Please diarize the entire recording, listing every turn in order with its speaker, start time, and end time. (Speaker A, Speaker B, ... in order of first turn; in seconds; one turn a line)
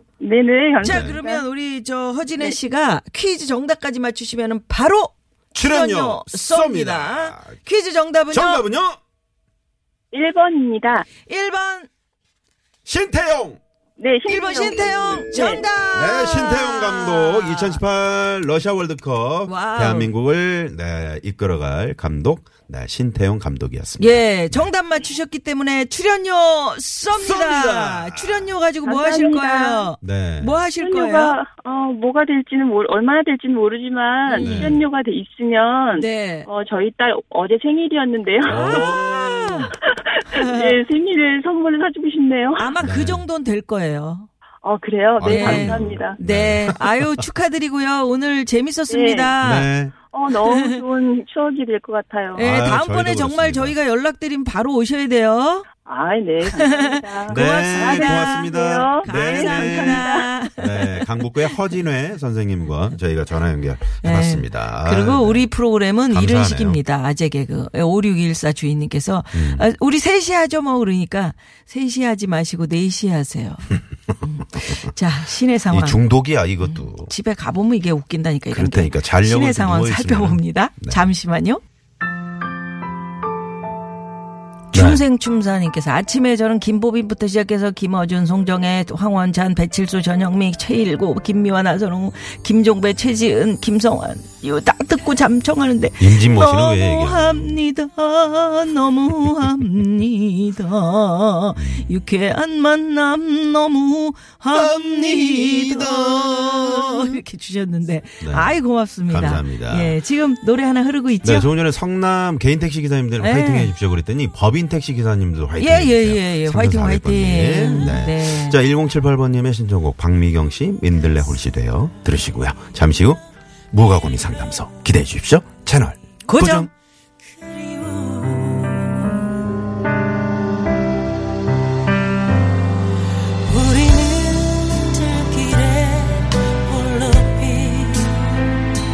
Speaker A: 0.2-1.4
Speaker B: 0.8-1.2
Speaker C: 0.8-8.7
Speaker B: 5.5-7.5
Speaker B: 8.3-9.0
Speaker A: 10.1-11.1
Speaker C: 11.2-11.9
Speaker B: 12.9-13.6
Speaker A: 14.0-15.6
Speaker C: 14.3-17.8
Speaker B: 15.9-24.7
Speaker C: 19.5-20.1
Speaker C: 24.0-31.4
Speaker B: 27.1-28.5
Speaker A: 28.9-29.9
Speaker B: 30.0-30.6
Speaker A: 30.8-39.0
Speaker C: 34.3-34.8
Speaker B: 34.4-34.8
Speaker C: 35.9-36.5
Speaker B: 38.5-39.7
Speaker C: 38.5-39.7
Speaker A: 39.7-42.7
Speaker C: 40.3-40.8
Speaker C: 42.6-44.3
Speaker B: 42.8-43.2
Speaker A: 44.6-46.2
Speaker B: 45.2-47.2
Speaker C: 45.2-49.7
Speaker A: 48.9-49.4
Speaker B: 49.4-49.9
Speaker A: 49.9-52.5
Speaker C: 50.5-50.8
Speaker B: 52.4-53.8
Speaker C: 52.4-55.7
Speaker A: 55.9-60.3
Speaker C: 56.5-61.6
Speaker B: 57.3-65.5
Speaker C: 64.0-76.0
Speaker B: 66.1-66.8
Speaker B: 69.3-69.7
Speaker B: 75.7-77.1
Speaker C: 76.6-81.6
Speaker B: 78.5-81.1
Speaker B: 84.7-85.0
Speaker C: 84.7-111.5
Speaker B: 96.0-97.6
Speaker B: 101.6-101.9
Speaker B: 104.5-107.2
Speaker B: 108.2-108.6
Speaker B: 109.1-110.0
Speaker B: 111.2-126.7
Speaker C: 113.2-113.7
Speaker C: 115.6-118.6
Speaker C: 126.3-126.7
Speaker C: 127.4-129.2
Speaker C: 133.4-138.3